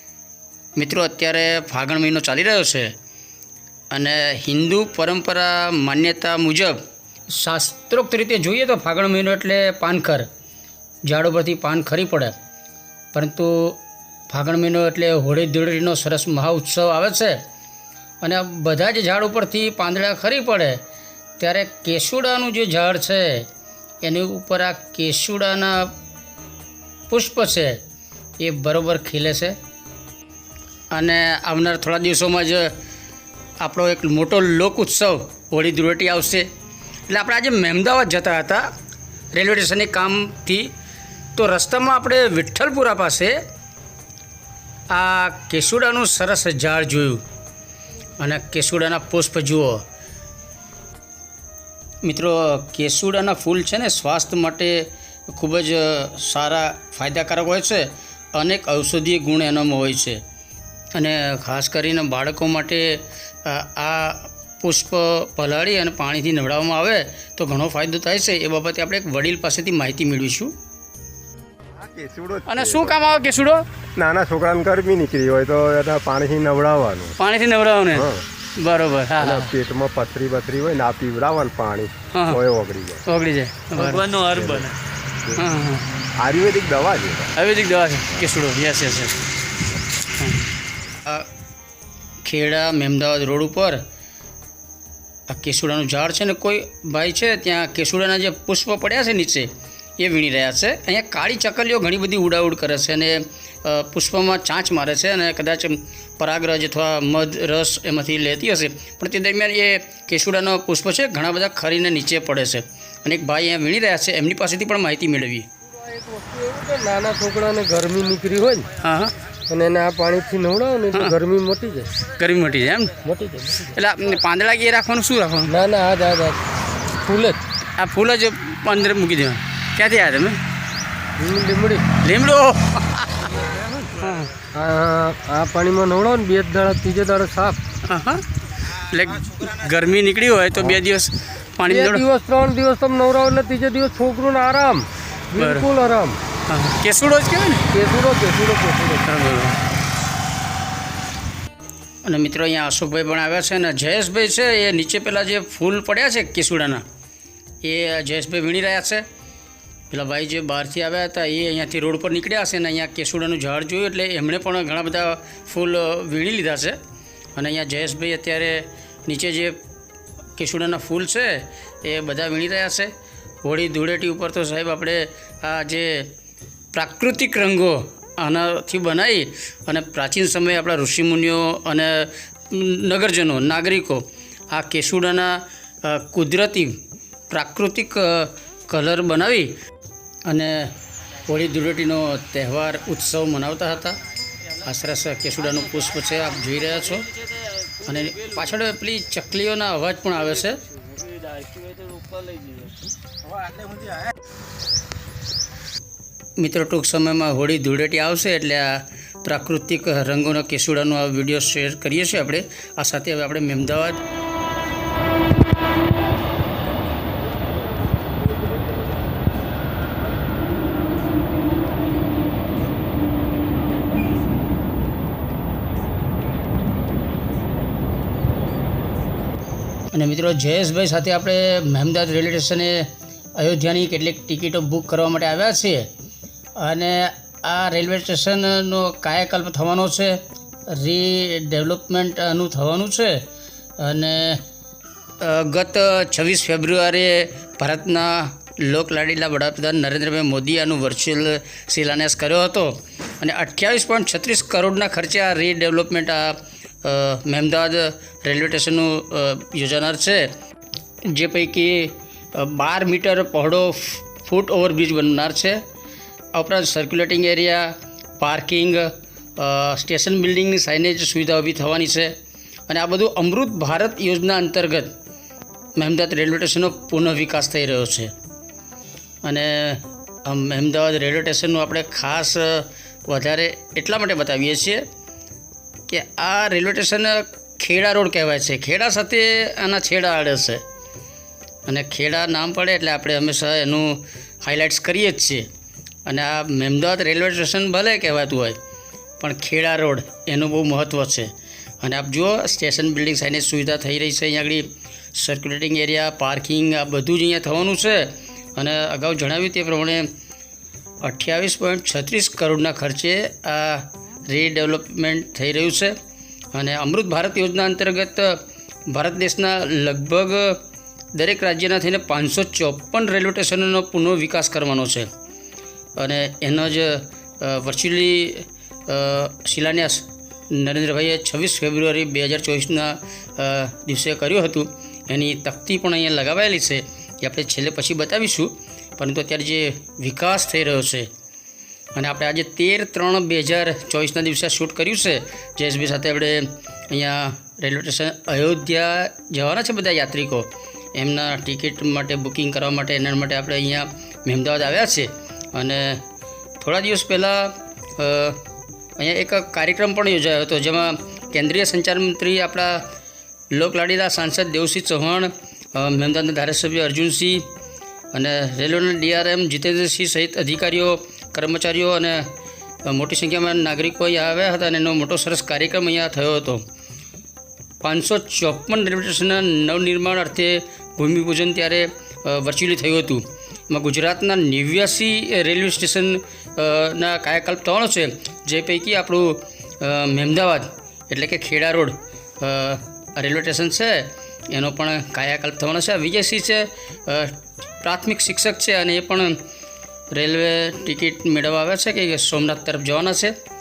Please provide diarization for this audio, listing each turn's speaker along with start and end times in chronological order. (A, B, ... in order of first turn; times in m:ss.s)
0:00.8-0:02.9 A
0:03.9-0:06.8 A
0:07.3-0:10.3 A
0:11.0-0:12.3 A
0:13.1-0:17.4 A
0:18.2-0:20.8 A
0:21.4-0:23.5 A
0:24.0-0:25.9 A
0:27.1-0:27.8 A
0:28.4-0:29.6 A
0:30.9-0:32.7 A
0:33.6-0:36.5 A
0:37.1-0:38.7 A
0:39.3-0:40.7 A
0:41.3-0:43.4 A
0:44.9-0:47.2 A
0:48.2-0:49.8 A
0:52.0-1:00.2 A
1:00.9-1:10.5 A
1:11.8-1:12.9 B
1:12.5-1:13.6 A
1:14.0-1:17.1 B
1:17.2-1:19.5 A
1:17.9-1:18.2 B
1:19.2-1:23.0 B
1:22.1-1:22.4 A
1:23.0-1:24.4 A
1:23.9-1:24.7 C
1:24.1-1:24.7 B
1:25.4-1:25.9 A
1:26.2-1:27.3 B
1:27.3-1:29.2 A
1:30.0-1:30.4 A
1:31.0-1:31.3 A
1:32.2-1:33.8 A
1:35.3-1:55.5 A
1:55.8-1:58.7 C
1:58.8-1:59.1 A
1:59.5-2:01.9 C
2:00.9-2:01.2 A
2:02.0-2:03.0 A
2:03.0-2:03.7 C
2:03.6-2:05.6 A
2:05.5-2:06.4 C
2:07.0-2:07.4 C
2:07.8-2:10.4 A
2:11.2-2:11.8 C
2:12.0-2:14.3 A
2:14.5-2:17.6 C
2:17.8-2:22.0 A
2:21.7-2:26.2 C
2:25.4-2:25.7 A
2:26.5-2:27.7 A
2:27.7-2:29.0 C
2:29.0-2:29.6 A
2:32.0-2:36.8 A
2:37.6-2:39.0 A
2:39.9-2:46.8 A
2:47.3-2:49.6 A
2:50.4-2:52.9 A
2:53.4-2:56.1 A
2:56.7-3:06.8 A
3:07.3-3:09.5 A
3:10.3-3:10.7 A
3:11.3-3:14.0 A
3:14.6-3:17.1 A
3:17.8-3:20.6 A
3:20.8-3:22.7 C
3:26.4-3:34.0 A
3:49.9-3:55.9 A
3:56.6-4:03.2 A
4:03.8-4:04.4 A
4:05.2-4:20.3 A
4:21.0-4:25.6 A
4:26.3-4:32.1 A
4:32.7-4:34.9 A
4:35.8-4:38.1 A
4:39.2-4:44.8 A
4:45.9-4:50.6 A
4:51.6-4:55.5 A
4:56.0-4:58.6 A
4:59.2-5:10.1 A
5:11.0-5:15.9 A
5:16.5-5:20.6 A
5:21.1-5:25.1 A
5:26.0-5:41.1 A
5:41.9-5:56.0 A
5:56.6-5:58.4 A
5:59.0-6:02.8 A
6:03.5-6:07.4 A
6:08.1-6:12.2 A
6:12.8-6:16.6 A
6:17.8-6:39.4 A
6:40.1-6:43.4 A